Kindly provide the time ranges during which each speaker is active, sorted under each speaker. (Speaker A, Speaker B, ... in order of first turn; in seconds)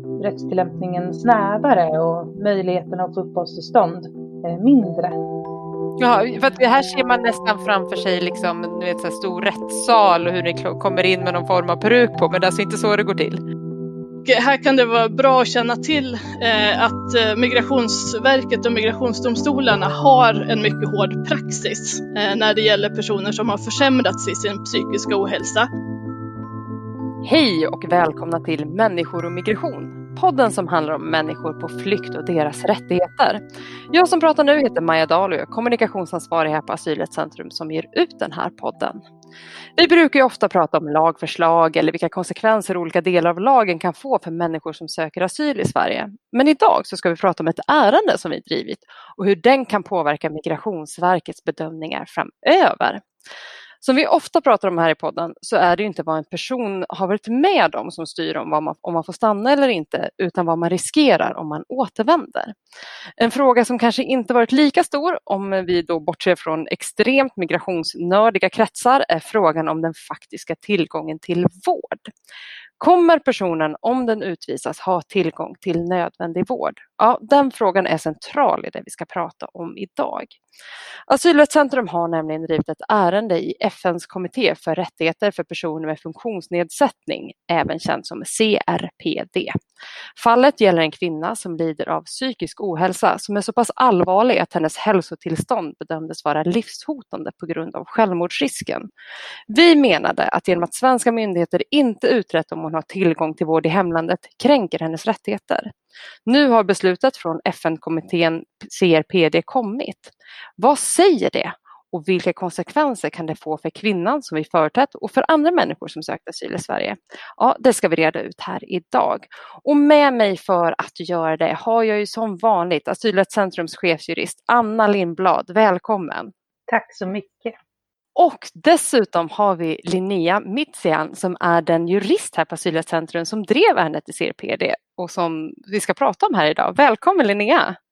Speaker A: 0.2-5.2, 126.7-127.6
Speaker B: 6.0-13.4, 27.2-33.4, 33.9-39.0, 39.8-53.0, 53.8-62.5, 63.2-72.1, 72.8-80.4, 81.1-89.5, 90.2-98.9, 99.5-105.7, 106.2-126.3, 128.2-137.8
Speaker C: 14.2-25.7